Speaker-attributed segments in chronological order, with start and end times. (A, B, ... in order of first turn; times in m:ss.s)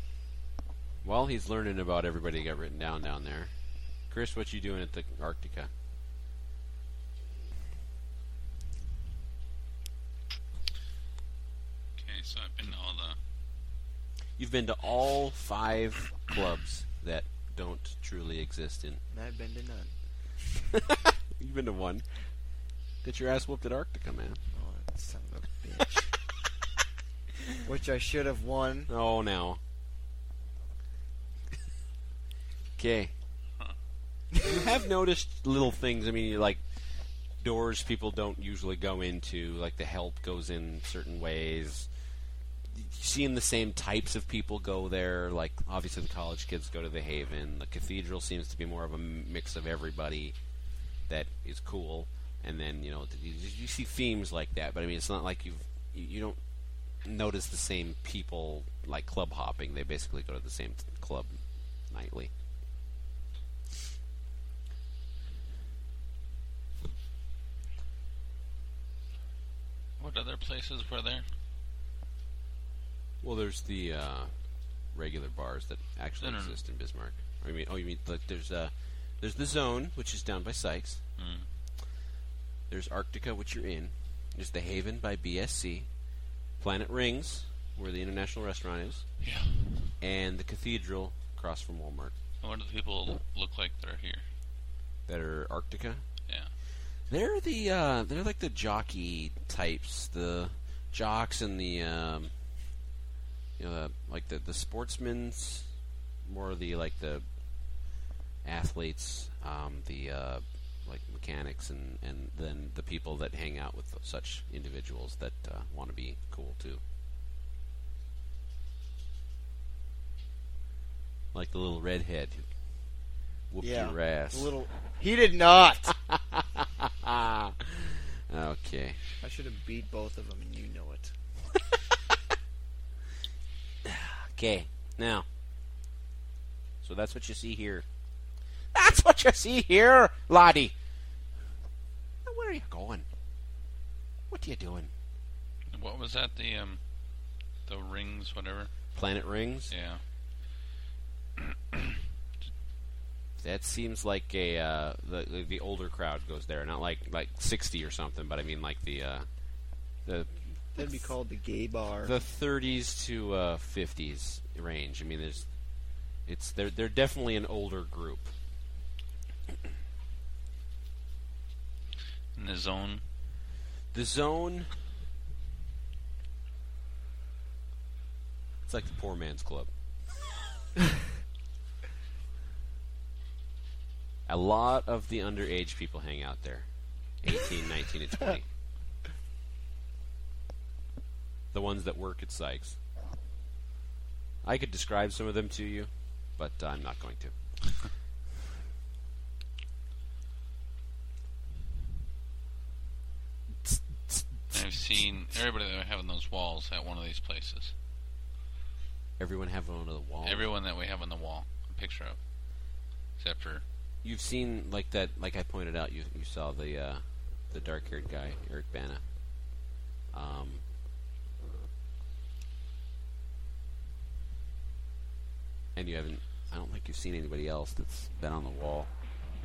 0:01.0-0:03.5 A
0:04.1-0:05.7 A
0:12.0-0:13.2 B
0:14.4-0:19.0 A
0:19.1-0:19.9 C
0:20.7-0:22.0 A
0:23.0-0:24.4 A
0:24.5-0:26.1 C
0:27.6-0:28.9 C
0:28.9-0:29.6 A
0:32.8-0:33.1 A
0:34.4-0:36.6 A
0:37.4-0:41.9 A
0:42.7-0:50.4 A
0:51.1-0:56.4 A
0:57.0-1:02.3 A
1:10.0-1:11.2 B
1:13.2-1:14.3 A
1:14.9-1:21.0 A
1:16.2-1:16.6 B
1:21.2-1:21.5 B
1:22.7-1:25.9 A
1:26.6-1:29.0 A
1:29.2-1:29.9 B
1:30.0-1:32.1 A
1:32.4-1:34.2 B
1:35.1-1:36.0 A
1:37.1-1:42.3 A
1:43.6-1:45.7 A
1:46.2-1:47.2 A
1:48.4-1:56.8 A
2:01.3-2:02.4 A
2:03.5-2:04.5 A
2:03.6-2:05.9 C
2:05.9-2:09.0 A
2:09.2-2:11.1 C
2:11.7-2:12.2 A
2:13.8-2:15.3 A
2:16.8-2:17.8 A
2:18.7-2:20.7 A
2:22.2-2:23.0 A
2:24.3-2:24.9 A
2:25.7-2:26.8 B
2:27.7-2:28.7 B
2:28.9-2:29.7 A
2:29.7-2:30.0 B
2:33.4-2:39.3 A
2:40.0-2:40.9 A
2:40.7-2:42.1 C
2:42.0-2:45.5 A
2:46.3-2:48.3 A
2:52.4-2:53.0 B
2:53.9-2:54.7 A
2:58.6-2:59.7 A
3:04.3-3:06.7 A
3:07.2-3:08.5 A
3:11.5-3:12.8 A
3:14.4-3:17.3 A
3:23.6-3:24.6 A
3:24.5-3:27.7 B
3:29.2-3:30.5 A
3:30.2-3:32.2 B
3:33.2-3:33.6 B
3:34.0-3:39.0 A
3:40.1-3:40.6 A
3:45.7-3:48.9 A